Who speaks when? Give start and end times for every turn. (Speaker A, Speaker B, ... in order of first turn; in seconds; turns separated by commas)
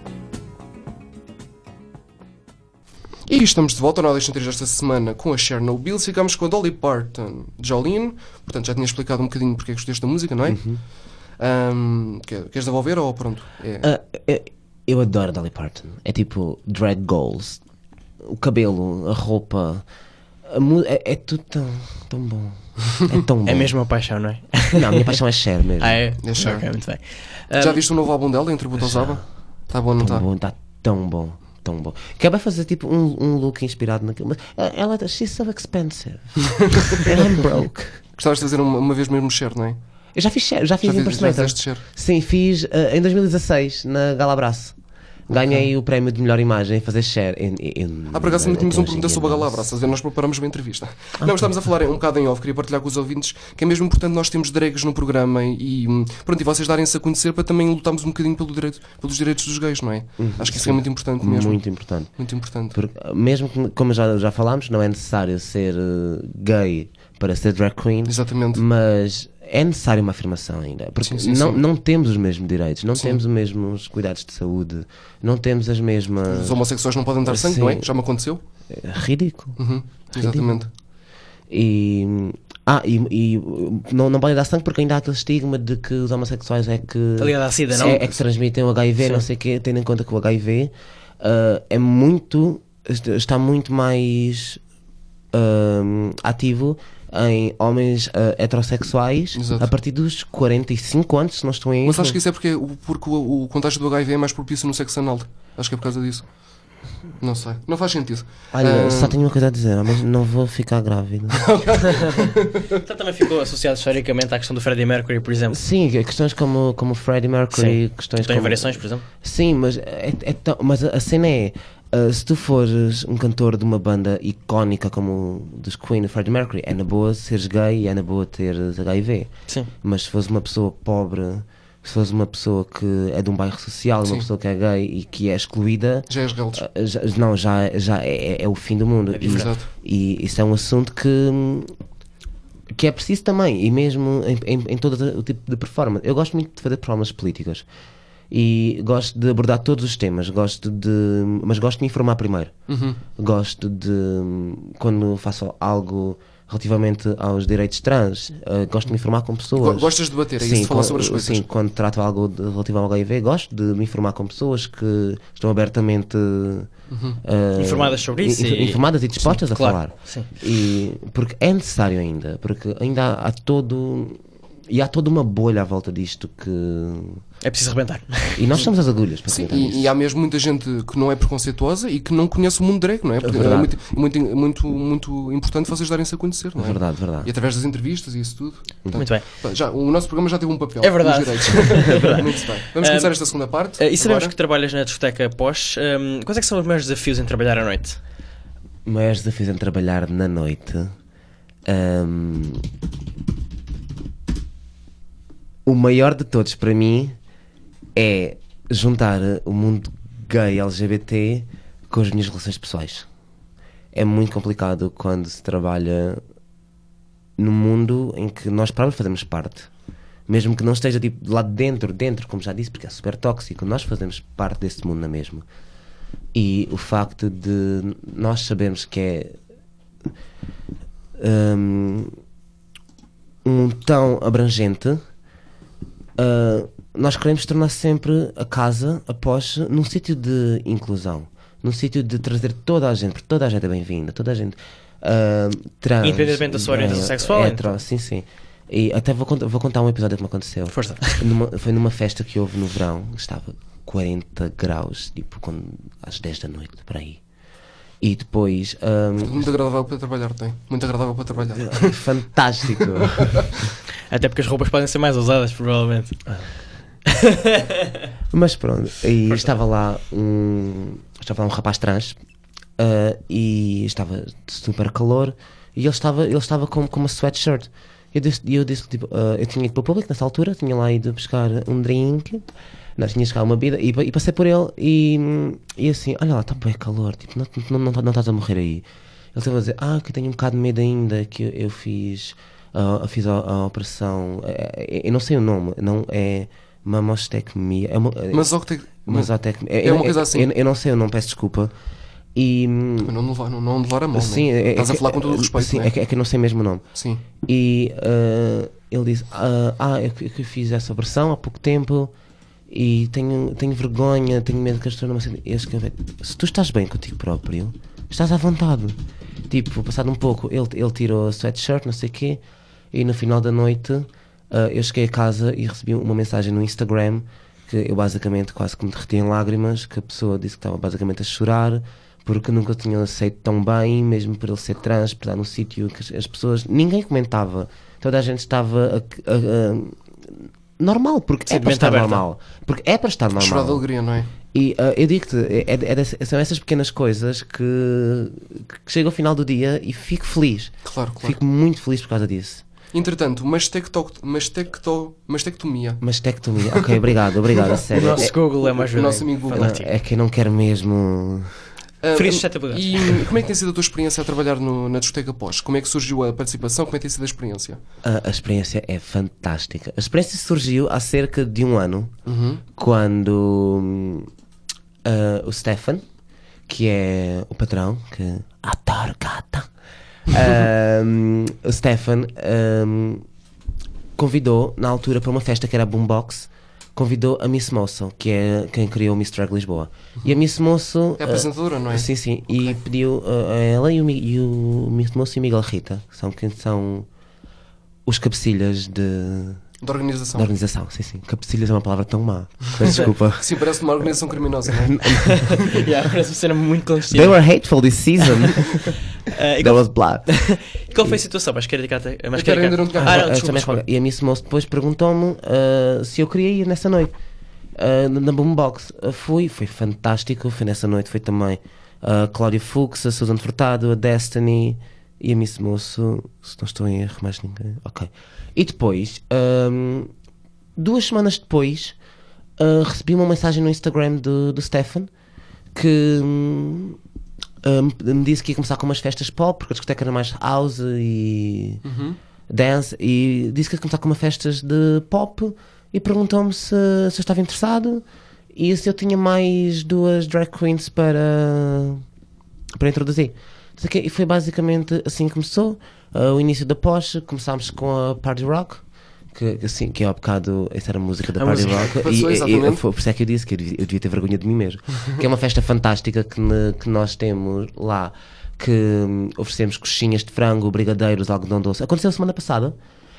Speaker A: 3.3-10.6, Speaker B: 10.5-10.8, Speaker A: 11.4-13.9, Speaker B: 13.8-17.6, Speaker B: 18.2-19.9, Speaker B: 20.5-23.7, Speaker C: 23.5-25.2, Speaker B: 24.7-26.0, Speaker C: 25.8-27.8, Speaker A: 26.2-26.7, Speaker A: 27.6-30.2, Speaker B: 28.8-29.2, Speaker B: 30.0-38.0, Speaker A: 36.6-37.1, Speaker A: 38.2-39.8, Speaker B: 40.1-44.8, Speaker A: 40.8-41.8, Speaker B: 45.3-49.6, Speaker A: 48.1-61.6, Speaker B: 51.2-51.5, Speaker B: 60.2-62.1, Speaker A: 62.2-62.8, Speaker B: 62.7-76.6, Speaker A: 68.1-68.6, Speaker A: 71.0-71.6, Speaker A: 73.0-73.2, Speaker A: 76.3-78.4, Speaker B: 77.3-77.9, Speaker B: 78.7-79.6, Speaker A: 79.6-80.7, Speaker B: 80.2-80.6, Speaker B: 81.5-94.6, Speaker C: 87.2-88.1, Speaker B: 95.3-102.2, Speaker A: 99.3-99.7, Speaker A: 101.8-106.3, Speaker A: 107.2-109.2, Speaker B: 108.5-111.5, Speaker A: 111.3-112.8, Speaker C: 112.7-115.6, Speaker B: 115.5-129.3, Speaker C: 117.5-119.0, Speaker B: 129.8-141.7, Speaker A: 136.1-136.7, Speaker C: 139.1-139.5, Speaker A: 139.2-139.7, Speaker B: 142.7-147.7, Speaker B: 148.3-152.5, Speaker A: 152.7-153.0, Speaker B: 153.2-166.7, Speaker A: 159.6-161.4, Speaker A: 166.9-167.2, Speaker B: 167.2-177.2, Speaker C: 167.6-170.3, Speaker C: 177.4-178.6, Speaker B: 178.3-179.9, Speaker A: 179.3-194.3, Speaker B: 183.2-183.7, Speaker B: 186.6-187.3, Speaker C: 189.0-189.2, Speaker C: 190.8-192.2, Speaker C: 192.8-193.1, Speaker C: 193.8-198.0, Speaker B: 198.8-200.9, Speaker B: 201.7-202.7, Speaker B: 205.7-207.2, Speaker B: 207.9-213.1, Speaker B: 213.9-216.2, Speaker B: 217.4-219.7, Speaker B: 220.3-225.4, Speaker B: 226.3-229.4, Speaker B: 231.2-232.2, Speaker B: 233.4-235.0, Speaker B: 236.2-257.2, Speaker C: 246.0-247.8, Speaker C: 250.7-251.3, Speaker B: 258.0-259.5, Speaker A: 259.2-262.0, Speaker B: 261.6-263.4, Speaker A: 262.8-263.5, Speaker C: 264.1-266.2, Speaker C: 267.1-267.9, Speaker B: 268.3-272.2, Speaker B: 272.8-282.5, Speaker B: 283.0-298.5, Speaker A: 298.3-300.5, Speaker B: 299.1-301.7, Speaker B: 302.4-303.1, Speaker A: 303.0-305.9, Speaker B: 304.1-306.8, Speaker A: 306.9-307.2, Speaker B: 307.4-312.1, Speaker B: 312.7-322.4, Speaker B: 322.9-343.9, Speaker C: 341.5-342.2, Speaker A: 343.3-344.3, Speaker B: 344.5-352.6, Speaker A: 350.9-351.4, Speaker A: 352.9-356.1, Speaker B: 356.0-358.3, Speaker A: 356.7-357.0, Speaker A: 357.6-359.7, Speaker C: 357.9-359.9, Speaker B: 359.5-361.5, Speaker A: 362.0-367.8, Speaker C: 362.1-363.2, Speaker B: 368.0-372.1, Speaker A: 372.3-372.6, Speaker B: 372.8-374.3, Speaker B: 375.0-376.0, Speaker B: 376.7-379.7, Speaker B: 380.3-383.3, Speaker B: 384.2-397.1, Speaker A: 391.2-392.8, Speaker B: 398.1-399.6, Speaker A: 399.8-400.5, Speaker B: 400.4-403.6, Speaker A: 402.8-405.8, Speaker B: 404.7-405.6, Speaker C: 405.4-407.4, Speaker B: 407.1-409.0, Speaker C: 409.3-413.8, Speaker B: 409.6-410.3, Speaker A: 412.3-413.6, Speaker B: 413.0-417.1, Speaker B: 417.8-430.1, Speaker B: 430.8-432.0, Speaker B: 432.6-435.1, Speaker B: 435.7-437.0, Speaker B: 437.6-441.8, Speaker A: 441.8-442.2, Speaker B: 442.5-452.0, Speaker B: 452.8-472.8, Speaker C: 461.4-461.9, Speaker A: 461.7-462.8